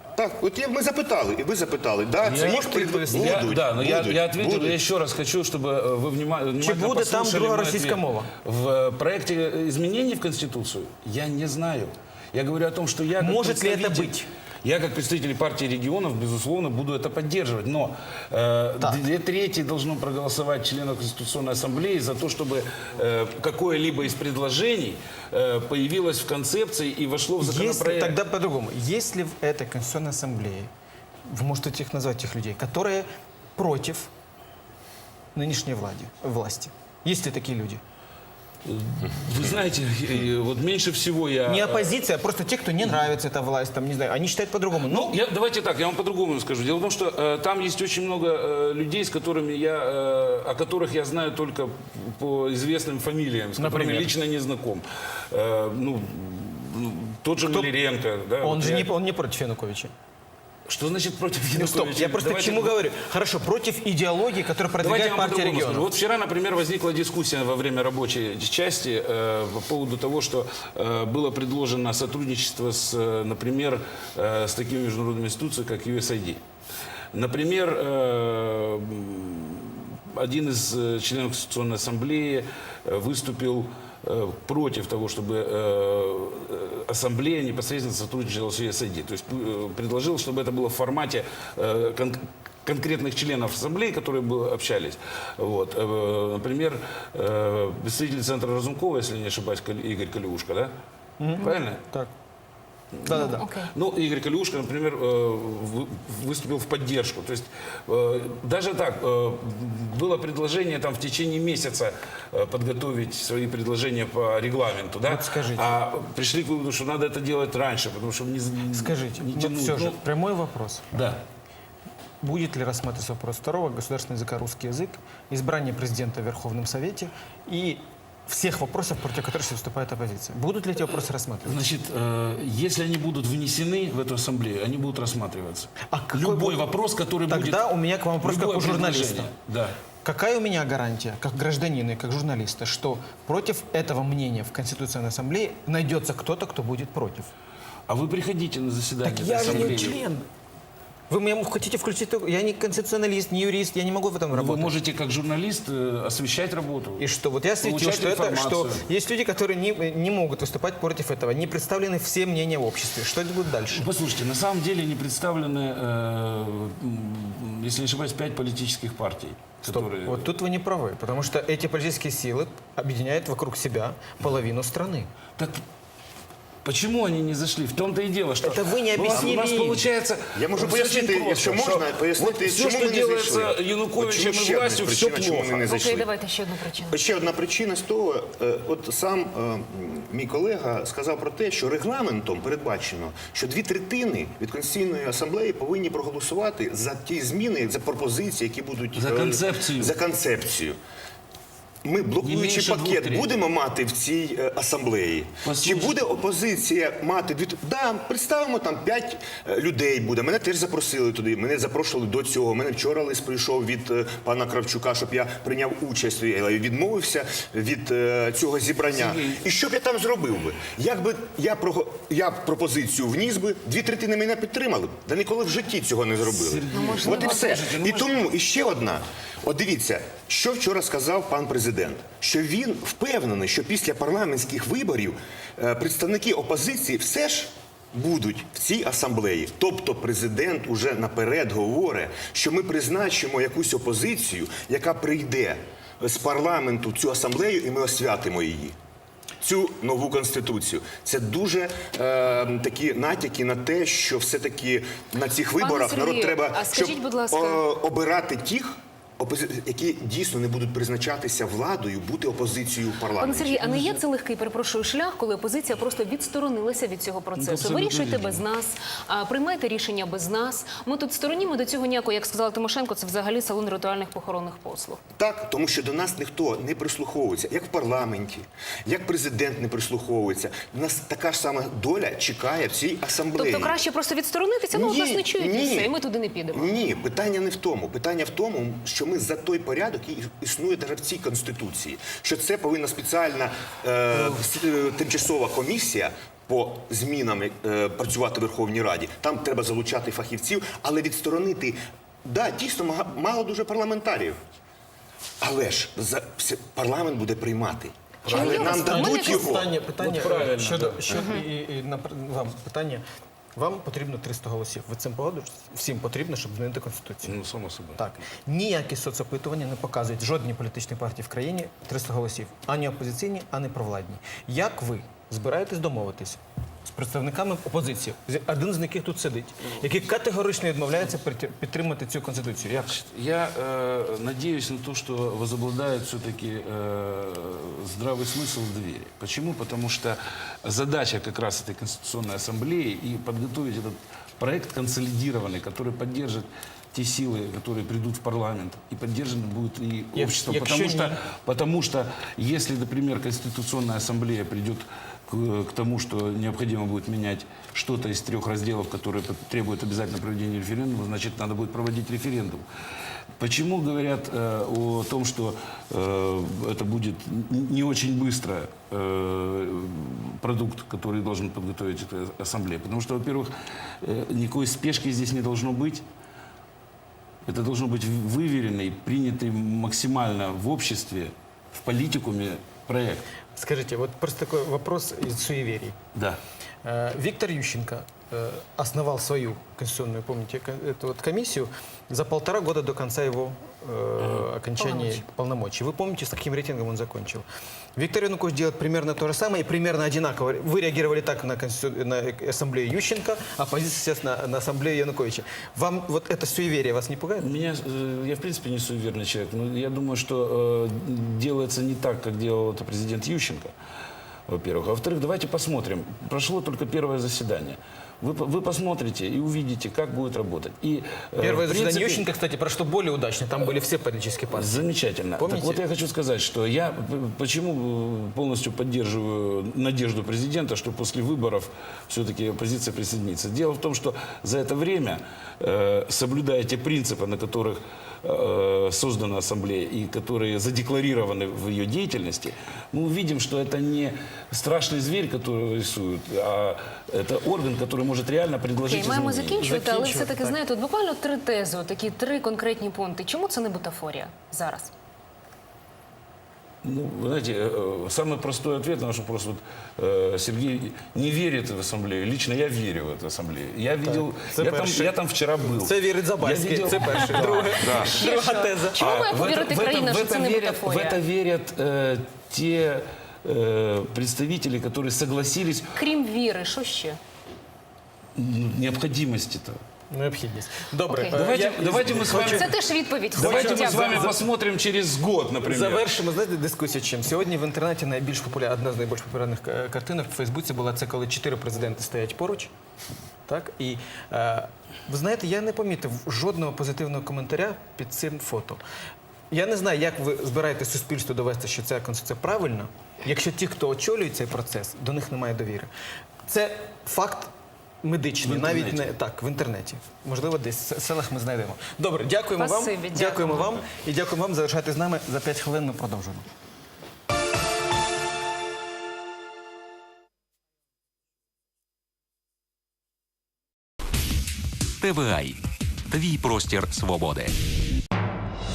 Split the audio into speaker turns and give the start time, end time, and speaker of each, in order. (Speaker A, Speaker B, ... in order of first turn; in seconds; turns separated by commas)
Speaker A: 0.2-4.8, Speaker B: 2.2-28.2, Speaker C: 2.3-3.5, Speaker C: 6.6-8.3, Speaker C: 13.2-14.3, Speaker C: 27.4-30.7, Speaker C: 31.3-34.1, Speaker C: 35.4-37.8, Speaker B: 38.6-42.0, Speaker C: 41.5-45.2, Speaker B: 44.9-59.0, Speaker C: 53.6-54.1, Speaker C: 57.4-57.7, Speaker C: 58.4-59.9, Speaker B: 60.7-62.8, Speaker C: 61.5-65.9, Speaker B: 64.8-76.4, Speaker B: 77.1-100.7, Speaker C: 101.2-102.1, Speaker B: 101.4-101.8, Speaker B: 103.0-120.0, Speaker C: 103.0-103.5, Speaker D: 103.1-103.7, Speaker C: 115.0-115.8, Speaker C: 118.7-120.8, Speaker B: 120.9-121.2, Speaker C: 122.2-131.7, Speaker B: 131.5-139.8, Speaker C: 135.9-136.6, Speaker C: 137.3-139.3, Speaker C: 140.0-147.3, Speaker B: 147.9-150.0, Speaker C: 149.0-150.3, Speaker C: 151.1-154.7, Speaker B: 154.3-157.1, Speaker C: 157.0-163.9, Speaker B: 157.6-158.8, Speaker B: 163.7-170.3, Speaker C: 169.6-175.1, Speaker B: 175.4-175.6, Speaker B: 176.7-185.7, Speaker C: 178.4-179.9, Speaker A: 180.3-186.1, Speaker D: 185.6-187.0, Speaker A: 186.9-200.8, Speaker B: 198.9-200.0, Speaker A: 201.8-248.8, Speaker B: 202.2-203.4, Speaker B: 205.4-206.0, Speaker B: 218.9-219.4, Speaker B: 226.2-228.2, Speaker D: 226.7-227.6, Speaker A: 249.4-263.8, Speaker D: 255.6-257.6, Speaker D: 263.2-275.0, Speaker B: 267.4-268.4, Speaker A: 275.2-283.8, Speaker D: 283.4-286.8, Speaker A: 284.7-285.9, Speaker A: 286.5-304.4, Speaker A: 305.4-309.8, Speaker B: 308.2-308.8, Speaker D: 308.3-309.5, Speaker C: 308.6-313.0, Speaker B: 309.7-311.3, Speaker D: 311.1-311.4, Speaker C: 313.6-317.4, Speaker B: 317.2-318.2, Speaker C: 318.0-333.0, Speaker B: 332.9-362.6, Speaker C: 350.1-351.2, Speaker B: 363.4-376.1, Speaker B: 377.4-383.2, Speaker C: 383.6-386.0, Speaker B: 386.1-386.4, Speaker C: 386.8-397.4, Speaker D: 394.8-395.2, Speaker C: 398.0-407.5, Speaker B: 407.4-413.7, Speaker B: 414.5-422.2, Speaker C: 421.4-424.8, Speaker B: 424.5-449.8, Speaker C: 425.4-425.8, Speaker D: 448.8-454.9, Speaker C: 449.6-450.6, Speaker B: 456.8-468.3, Speaker C: 464.0-469.0, Speaker D: 467.4-471.2, Speaker B: 468.9-476.0, Speaker D: 475.9-477.2, Speaker B: 478.4-479.8, Speaker C: 480.1-482.8, Speaker D: 481.1-481.5, Speaker B: 481.3-482.8, Speaker D: 482.1-484.4, Speaker C: 483.3-484.4, Speaker B: 483.4-486.1, Speaker C: 485.6-492.7, Speaker C: 493.5-498.8, Speaker C: 499.5-505.9, Speaker C: 506.5-516.5, Speaker B: 508.4-509.1, Speaker D: 512.6-513.8, Speaker E: 525.0-525.6, Speaker E: 526.1-527.5